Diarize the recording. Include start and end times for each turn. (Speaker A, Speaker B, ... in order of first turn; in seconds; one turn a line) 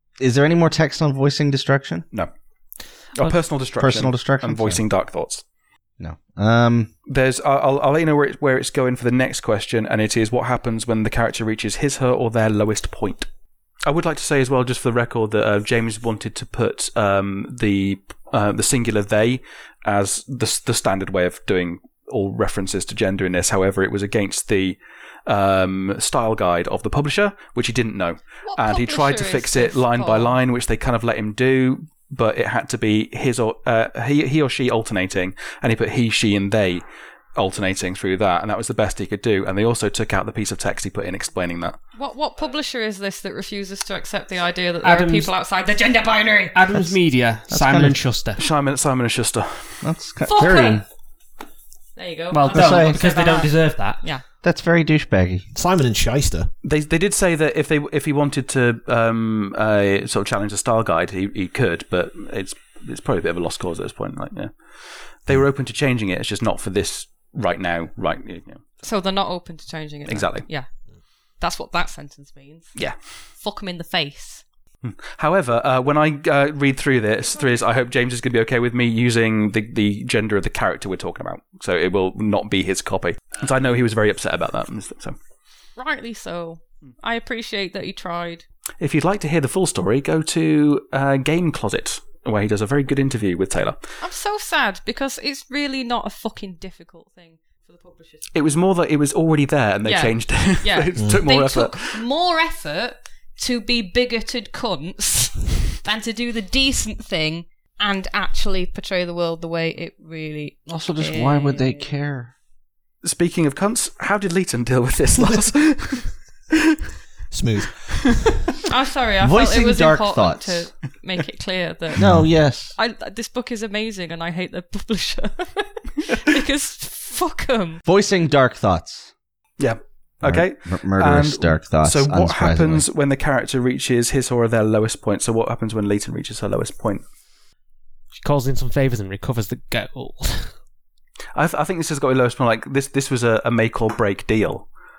Speaker A: 0.2-2.1
Speaker B: 3.1-5.4
Speaker A: 3.8-4.8
Speaker A: 6.0-6.9
Speaker B: 7.1-13.3
Speaker B: 13.9-36.8
Speaker C: 28.5-30.4
Speaker B: 37.4-41.8
Speaker C: 42.0-46.6
Speaker D: 44.8-45.3
Speaker D: 46.5-48.4
Speaker A: 47.5-48.0
Speaker B: 48.4-49.7
Speaker A: 49.8-50.8
Speaker C: 50.3-50.8
Speaker C: 52.0-54.2
Speaker D: 52.3-54.0
Speaker A: 52.5-53.0
Speaker A: 54.4-55.5
Speaker E: 55.5-56.5
Speaker B: 56.6-64.5
Speaker B: 65.2-68.8
Speaker C: 68.8-70.7
Speaker B: 70.1-70.5
Speaker C: 71.4-72.8
Speaker C: 73.4-74.4
Speaker B: 74.8-85.2
Speaker C: 85.8-88.4
Speaker B: 88.8-93.8
Speaker C: 94.0-98.2
Speaker B: 98.3-102.0
Speaker C: 99.8-111.9
Speaker E: 101.0-101.2
Speaker A: 110.7-112.3
Speaker B: 113.0-116.2
Speaker E: 117.3-118.3
Speaker C: 118.7-127.8
Speaker A: 119.2-120.7
Speaker A: 122.0-122.8
Speaker A: 127.9-129.1
Speaker B: 129.6-137.0
Speaker A: 130.2-132.8
Speaker D: 138.2-140.5
Speaker B: 141.3-144.7